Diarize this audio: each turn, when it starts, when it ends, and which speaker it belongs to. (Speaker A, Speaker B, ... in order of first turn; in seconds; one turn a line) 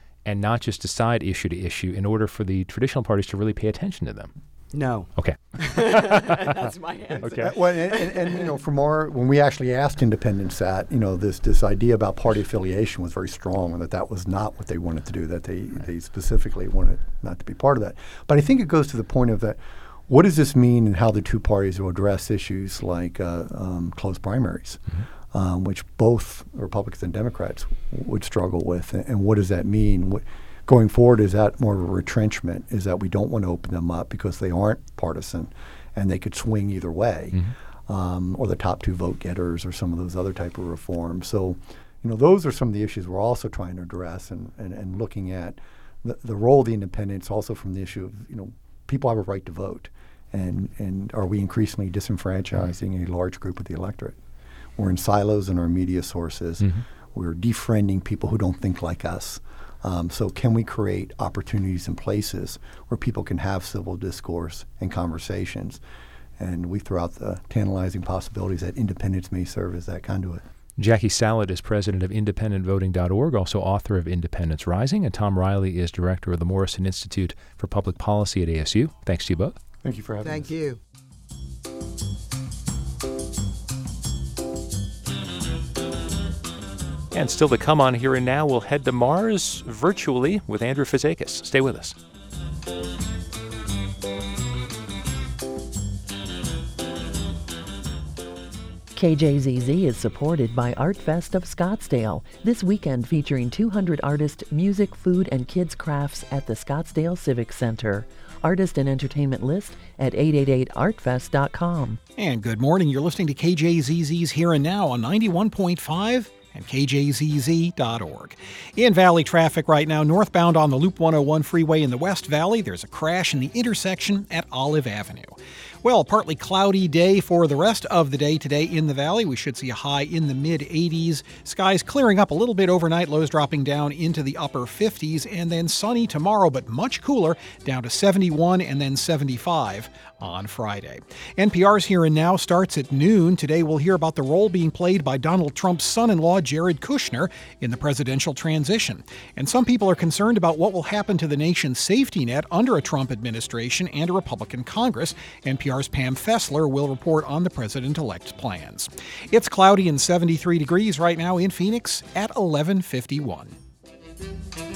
Speaker A: 0.2-4.3
Speaker B: 4.7-8.4
Speaker A: 5.2-6.1
Speaker C: 7.1-54.2
Speaker A: 7.2-7.5
Speaker C: 54.8-65.8
Speaker C: 66.4-70.4
Speaker A: 70.8-79.6
Speaker C: 79.8-80.5
Speaker B: 80.2-80.8
Speaker A: 87.1-92.0
Speaker D: 98.9-112.0
Speaker E: 112.2-163.6